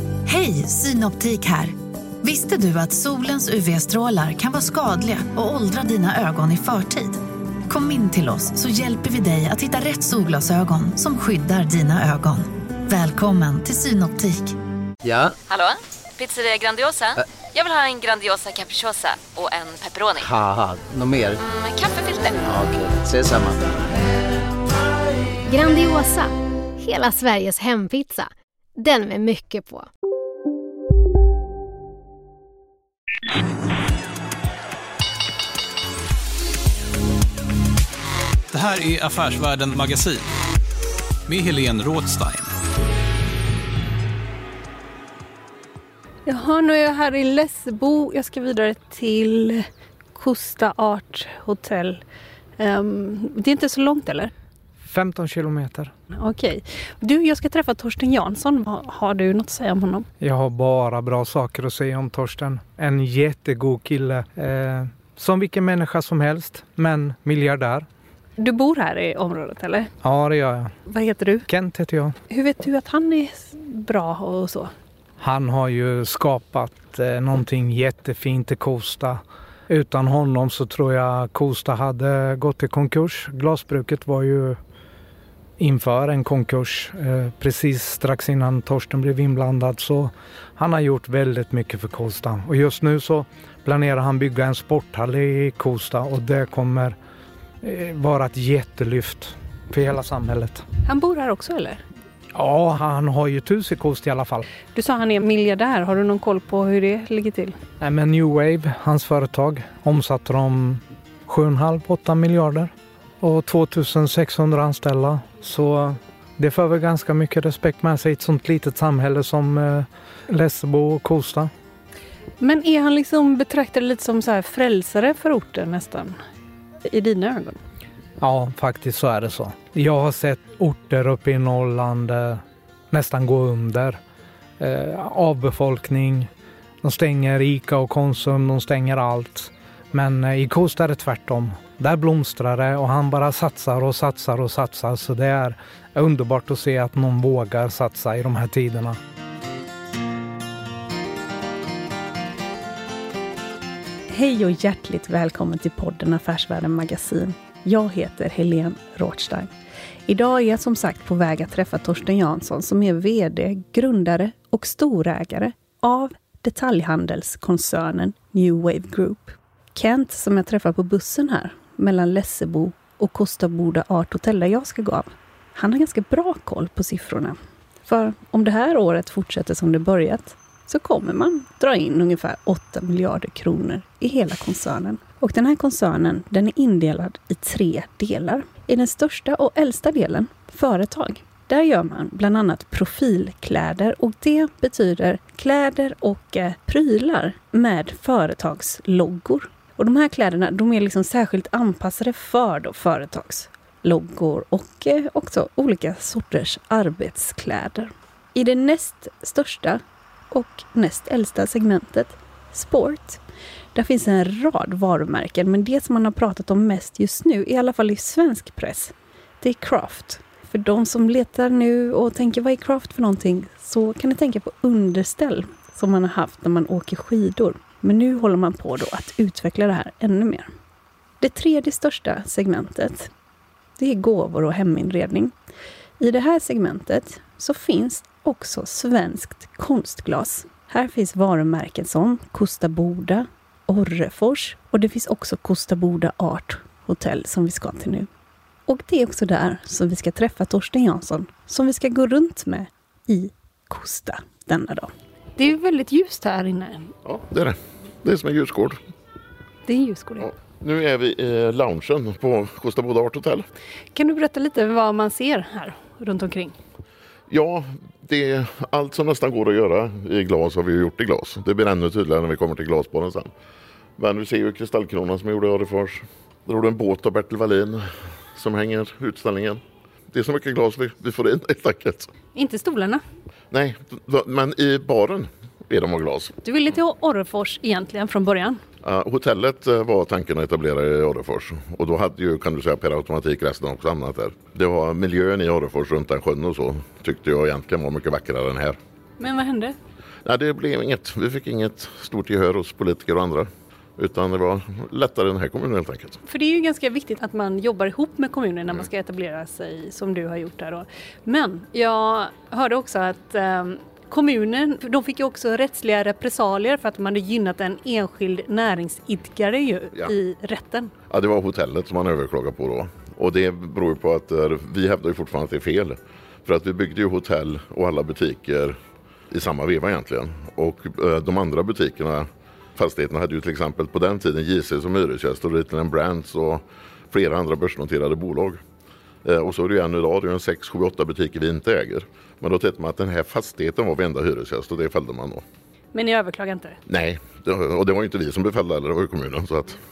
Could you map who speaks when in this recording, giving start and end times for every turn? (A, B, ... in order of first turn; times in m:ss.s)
0:00.2-0:14.5 A
0:15.0-0:15.4 B
0:15.5-0:20.3 C
0:20.2-0:21.4 B
0:21.6-0:22.4 C
0:22.4-0:23.7 B
0:25.5-0:29.9 D
0:38.5-0:40.3 E
0:41.3-0:42.5 E
0:46.2-0:52.0 F
0:52.6-0:54.3 F
0:54.8-0:55.9 G
0:56.2-1:00.1 F
1:00.2-1:07.9 G
1:08.4-1:09.9 F
1:10.0-1:10.7 G
1:10.9-1:11.5 F
1:11.5-1:12.1 G
1:12.3-1:14.7 F
1:15.2-1:24.6 G
1:25.6-1:37.0 G
1:37.6-1:40.6 G
1:40.8-1:41.8 F
1:42.3-1:44.4 G
1:44.7-1:47.6 F
1:47.8-2:01.5 G
2:02.4-2:06.2 F
2:06.8-2:07.6 F
2:08.2-2:14.0 G
2:14.6-2:16.3 G
2:16.8-2:29.0 G
2:34.1-2:39.5 F
2:40.1-3:33.2 F
3:33.7-3:50.5 F
3:51.2-3:53.1 F
3:53.8-3:55.3 F
3:56.0-4:08.1 F
4:08.7-4:16.9 F
4:17.0-4:18.8 H
4:19.6-4:20.3 F
4:20.2-4:23.5 H
4:23.9-4:26.6 F
4:27.3-4:33.3 H
4:34.0-4:42.1 H
4:42.3-4:43.0 F
4:43.5-4:46.3 H
4:46.4-4:48.6 F
4:48.8-4:58.8 H
4:59.2-4:59.8 F
5:00.2-5:06.2 H
5:06.2-5:20.9 F
5:21.1-5:28.8 H
5:29.3-5:38.6 H
5:39.2-5:45.4 H
5:45.9-5:46.8 F
5:46.9-5:49.8 H